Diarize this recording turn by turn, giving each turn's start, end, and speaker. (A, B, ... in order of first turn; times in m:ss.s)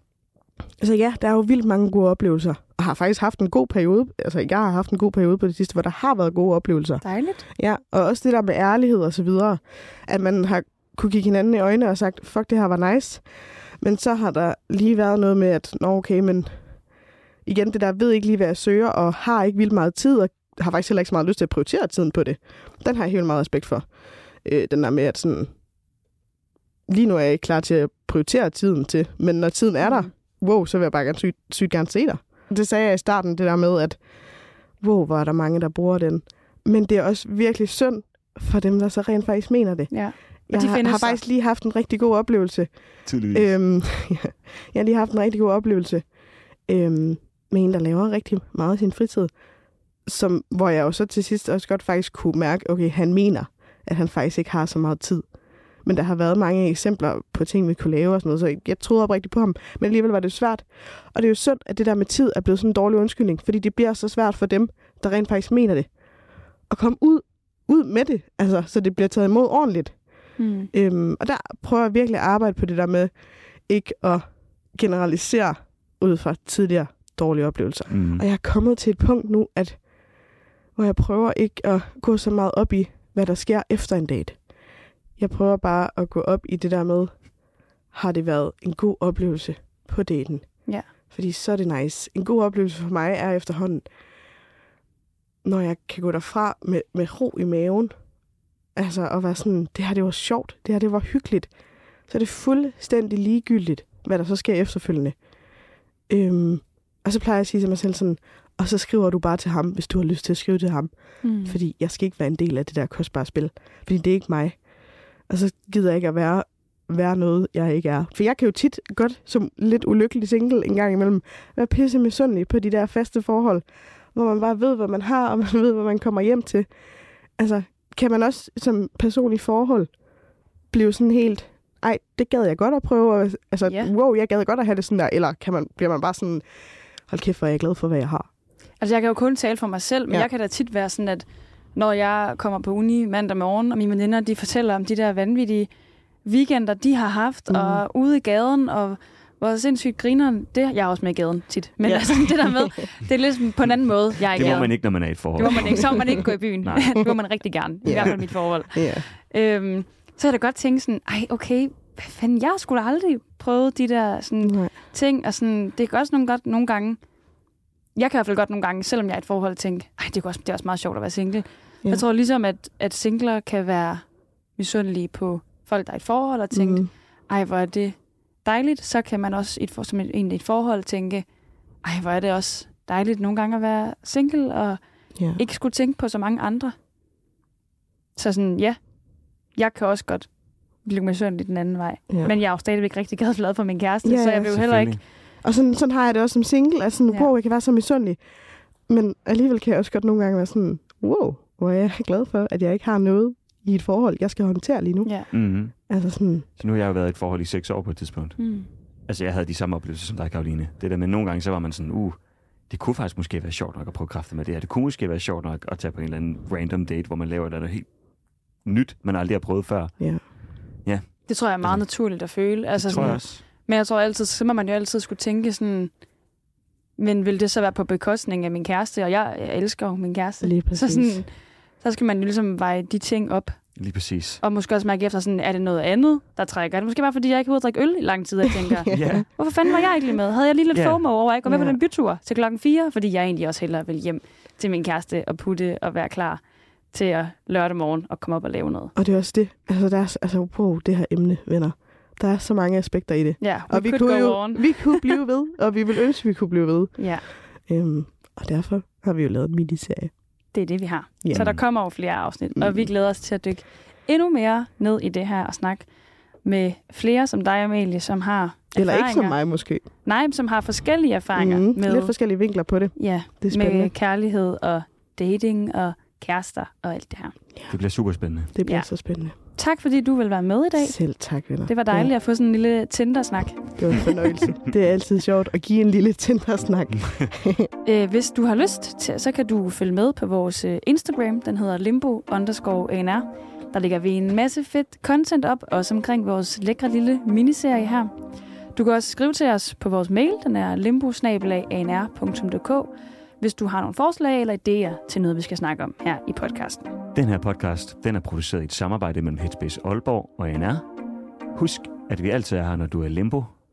0:00.8-0:13.2 A
0:07.0-0:07.4 B
0:13.8-0:16.5 A
0:17.4-0:23.8 A
0:24.4-0:25.5 A
0:26.9-0:34.0 A
0:29.8-0:30.1 B
0:34.8-0:42.7 A
0:39.9-0:41.2 B
0:43.1-0:43.5 C
0:43.3-0:46.1 A
0:46.7-0:49.3 A
0:50.1-0:55.3 A
0:55.8-1:05.9 A
1:06.7-1:10.0 A
1:10.4-1:10.7 B
1:10.7-1:13.1 A
1:13.7-1:19.8 A
1:17.9-1:18.2 C
1:20.8-1:24.4 A
1:25.2-1:27.3 A
1:27.9-1:33.8 A
1:35.4-1:37.9 A
1:38.8-1:41.5 A
1:42.1-1:45.1 A
1:46.1-1:54.6 A
1:51.2-1:51.6 B
1:55.3-2:03.6 A
2:04.1-2:06.7 A
2:07.4-2:09.9 A
2:10.7-2:16.4 A
2:13.6-2:13.9 B
2:17.1-2:18.3 A
2:18.8-2:25.7 B
2:26.2-2:47.0 B
2:27.5-2:27.8 A
2:31.8-2:32.7 A
2:34.3-2:37.0 C
2:37.8-2:39.1 A
2:44.4-2:44.7 A
2:47.9-2:54.0 B
2:54.6-3:01.2 B
2:56.5-2:56.9 A
3:01.8-3:04.8 B
3:05.2-3:05.4 A
3:05.4-3:06.8 B
3:08.2-3:08.8 B
3:09.5-3:10.3 B
3:10.8-3:15.0 B
3:14.0-3:14.5 A
3:14.5-3:15.0 C
3:15.4-3:18.2 A
3:18.9-3:25.1 A
3:25.3-3:25.7 C
3:25.9-3:26.5 A
3:26.6-3:28.4 C
3:28.4-3:28.7 B
3:29.1-3:32.2 C
3:32.7-3:37.9 C
3:38.6-3:40.0 C
3:41.3-3:45.9 B
3:42.8-3:43.4 C
3:47.0-3:51.3 B
3:50.4-3:51.2 A
3:51.8-3:53.6 B
3:53.8-3:54.4 C
3:54.4-4:08.9 B
3:58.9-3:59.3 C
4:00.7-4:01.0 C
4:01.4-4:01.8 A
4:08.9-4:17.0 A
4:13.4-4:15.2 B
4:17.0-4:17.2 B
4:17.7-4:20.1 A
4:20.5-4:25.8 B
4:21.2-4:21.5 A
4:21.3-4:21.6 C
4:22.6-4:22.8 A
4:26.4-4:29.4 B
4:28.8-4:29.8 A
4:30.0-4:32.1 B
4:31.4-4:33.9 A
4:33.0-4:37.4 B
4:37.7-4:38.5 C
4:38.5-4:39.4 A
4:39.5-4:41.0 B
4:40.8-4:42.1 A
4:41.6-4:44.4 B
4:43.8-4:47.7 A
4:47.8-4:58.1 B
4:58.7-5:06.9 B
5:07.1-5:10.8 C
5:11.5-5:13.5 C